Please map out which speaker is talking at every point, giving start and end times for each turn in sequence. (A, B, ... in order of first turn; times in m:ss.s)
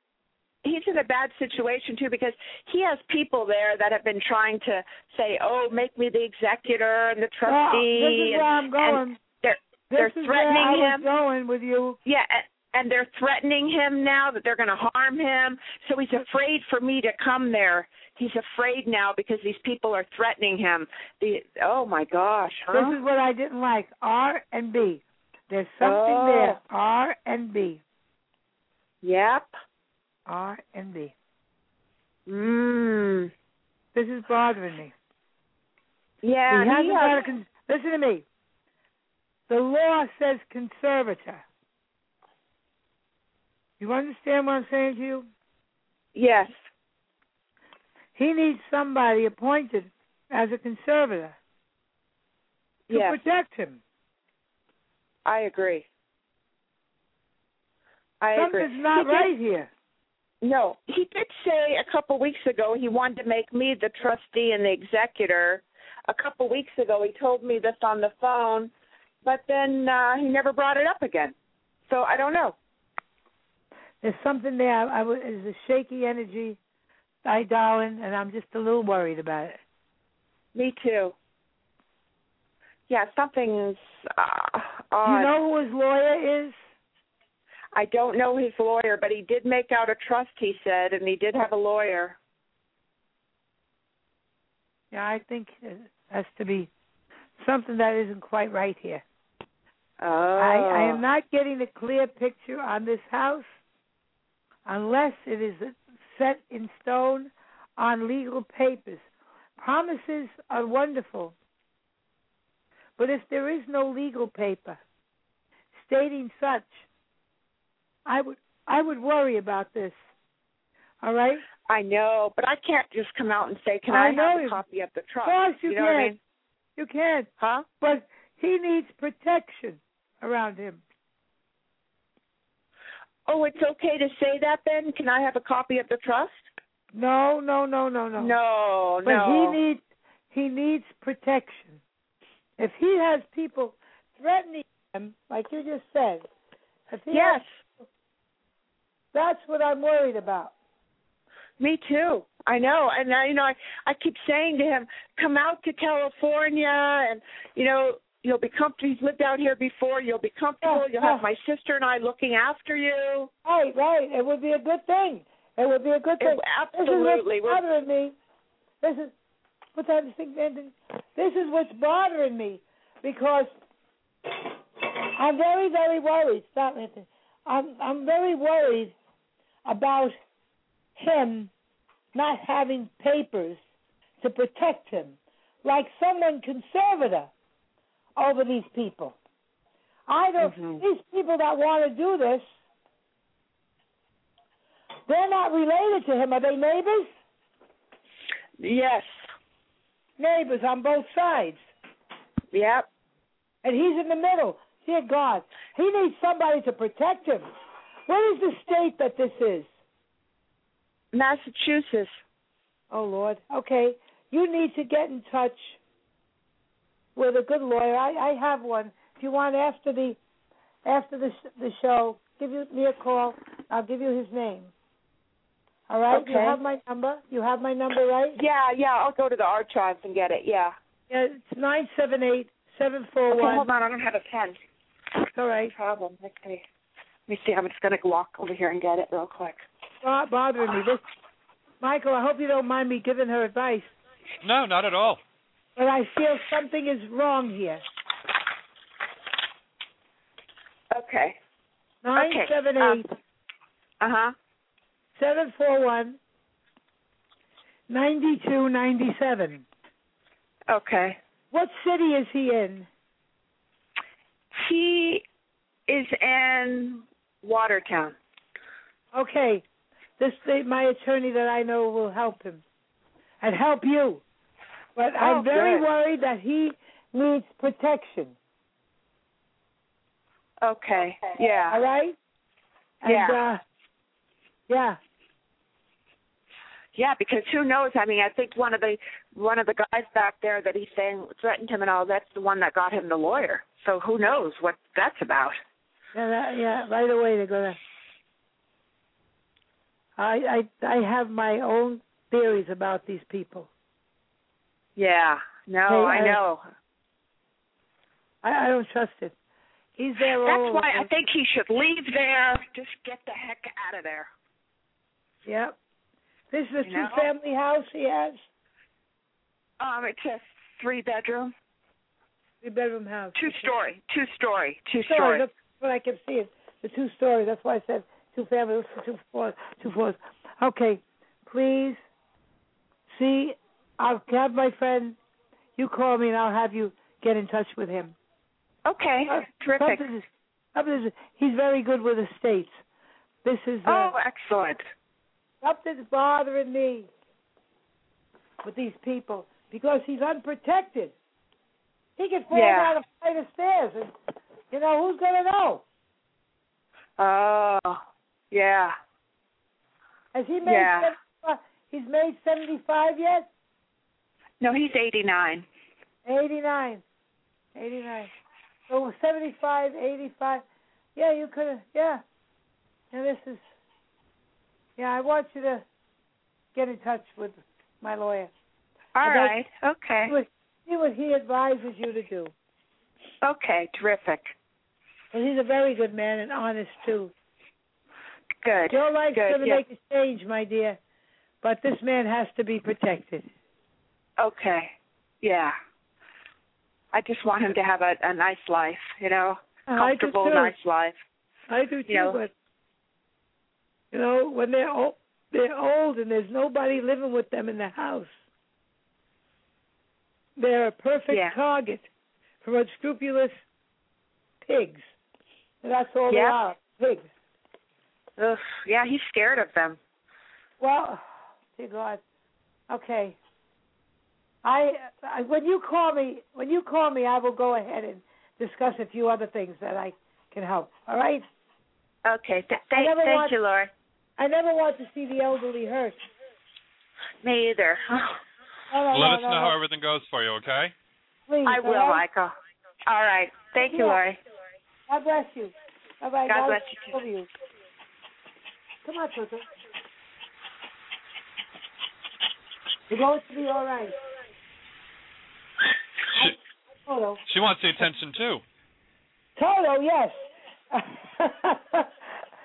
0:00.6-0:11.0 A
0:07.4-0:09.2 B
0:09.9-0:12.0 B
0:12.0-0:22.9 A
0:22.7-0:27.8 B
0:25.8-0:26.6 A
0:29.0-0:29.5 A
0:30.3-0:31.1 B
0:32.3-0:33.3 A
0:34.0-0:34.9 B
0:36.2-0:37.2 A
0:36.5-0:38.2 B
0:39.5-0:41.4 B
0:43.8-0:45.3 B
0:46.2-0:46.5 A
0:48.2-0:51.4 B
0:52.9-0:53.2 A
0:52.9-0:53.8 B
0:55.3-0:55.9 A
0:58.2-0:59.3 A
0:58.3-0:59.7 B
1:00.4-1:08.7 A
1:09.2-1:11.4 A
1:11.9-1:12.6 A
1:14.0-1:16.6 B
1:17.2-1:19.6 B
1:20.6-1:21.2 A
1:22.9-1:25.3 A
1:25.0-1:26.6 B
1:27.8-1:32.2 A
1:34.9-1:36.7 B
1:37.4-1:39.0 B
1:40.0-1:41.0 A
1:40.4-1:43.5 B
1:44.7-1:49.1 B
1:49.6-1:51.4 B
1:53.0-1:54.8 B
1:55.8-1:56.8 B
1:58.1-2:00.0 B
2:01.0-2:01.4 B
2:01.7-2:06.2 A
2:03.9-2:04.6 B
2:05.2-2:06.2 B
2:06.8-2:07.3 B
2:07.4-2:07.7 A
2:07.8-2:10.8 B
2:13.3-2:16.5 A
2:16.9-2:18.4 B
2:18.2-2:19.6 A
2:19.0-2:21.8 B
2:22.6-2:26.3 B
2:26.9-2:27.4 B
2:27.1-2:27.6 A
2:29.1-2:30.5 B
2:31.6-2:43.3 A
2:40.6-2:41.3 B
2:43.4-2:48.2 B
2:46.2-2:47.6 A
2:48.8-2:49.1 B
2:49.8-2:53.5 B
2:55.2-2:58.9 B
2:59.6-3:00.2 B
3:01.0-3:01.5 B
3:02.1-3:03.6 B
3:04.2-3:07.3 B
3:08.2-3:09.2 B
3:10.1-3:12.5 B
3:10.4-3:10.8 A
3:15.1-3:17.1 B
3:18.6-3:19.1 A
3:20.2-3:21.6 B
3:22.5-3:22.9 A
3:23.6-3:27.4 B
3:28.1-3:29.7 B
3:31.1-3:32.2 A
3:32.9-3:35.8 B
3:37.2-3:40.2 B
3:40.8-3:44.7 B
3:45.9-3:48.4 B
3:46.1-3:46.6 A
3:48.4-3:50.7 A
3:51.1-3:53.7 B
3:53.3-3:54.6 A
3:55.4-3:55.8 B
3:55.7-3:56.6 A
3:57.3-3:59.6 A
4:00.0-4:01.0 B
4:01.8-4:03.9 B
4:04.4-4:05.2 C
4:05.8-4:07.8 B
4:10.9-4:11.4 A
4:12.0-4:13.1 B
4:12.2-4:13.0 A
4:14.0-4:14.3 A
4:15.2-4:16.2 B
4:17.9-4:19.6 B
4:20.7-4:21.2 A
4:21.5-4:22.9 B
4:24.6-4:25.2 A
4:25.9-4:28.2 A
4:29.1-4:29.6 B
4:30.2-4:32.6 B
4:33.4-4:34.2 B
4:35.0-4:38.4 B
4:35.2-4:35.8 A
4:40.6-4:41.8 A
4:41.7-4:42.2 B
4:43.0-4:43.6 B
4:43.1-4:43.4 A
4:44.7-4:45.0 B
4:47.0-4:55.6 A
4:56.1-4:57.8 B
5:00.2-5:03.7 B
5:05.0-5:06.6 A
5:05.9-5:06.4 B
5:08.4-5:09.3 B
5:10.0-5:11.1 B
5:10.4-5:14.3 A
5:15.4-5:15.8 B
5:16.5-5:18.4 B
5:16.8-5:17.2 A
5:19.8-5:21.5 A
5:22.6-5:23.7 B
5:23.4-5:25.4 A
5:25.1-5:32.0 B
5:33.1-5:35.2 B
5:35.8-5:38.2 B
5:38.9-5:40.0 A
5:39.3-5:42.8 B
5:43.4-5:44.2 B
5:43.9-5:44.8 A
5:45.6-5:47.1 B
5:48.6-5:51.1 B
5:52.2-5:54.1 B
5:52.5-5:52.9 A
5:54.7-5:55.8 B
5:57.2-5:58.0 A
5:58.5-5:59.0 A
6:00.3-6:03.5 B
6:00.6-6:01.1 A
6:04.6-6:05.7 A
6:06.2-6:07.0 B
6:07.8-6:08.3 B
6:08.9-6:10.6 B
6:11.2-6:12.2 B
6:13.1-6:13.6 B
6:15.0-6:15.8 B
6:16.8-6:18.5 B
6:19.2-6:20.4 A
6:19.2-6:19.6 B
6:20.2-6:22.5 B
6:23.4-6:24.5 A
6:25.3-6:27.3 B
6:28.6-6:29.8 A
6:28.9-6:31.0 B
6:31.6-6:33.5 B
6:34.4-6:35.8 A
6:37.1-6:41.2 A
6:39.9-6:40.8 B
6:41.7-6:42.5 B
6:42.1-6:42.4 A
6:44.1-6:48.4 B
6:50.6-6:52.1 B
6:51.3-6:51.6 A
6:52.6-6:53.6 B
6:54.6-6:55.1 B
6:55.8-6:57.3 B
6:56.3-6:56.6 A
6:58.4-7:00.0 A
7:00.8-7:02.2 B
7:02.9-7:03.4 B
7:04.6-7:11.4 B
7:12.3-7:13.9 A
7:12.9-7:13.6 B
7:14.4-7:16.2 B
7:17.4-7:18.4 A
7:18.9-7:19.8 B
7:19.1-7:20.9 C
7:21.5-7:22.2 B
7:21.7-7:22.5 A
7:23.1-7:24.4 A
7:23.8-7:24.2 B
7:25.1-7:27.5 B
7:26.5-7:27.1 A
7:29.0-7:29.6 B
7:33.1-7:34.2 B
7:37.1-7:37.4 B
7:37.5-7:38.6 C
7:39.6-7:40.4 B
7:40.9-7:42.1 B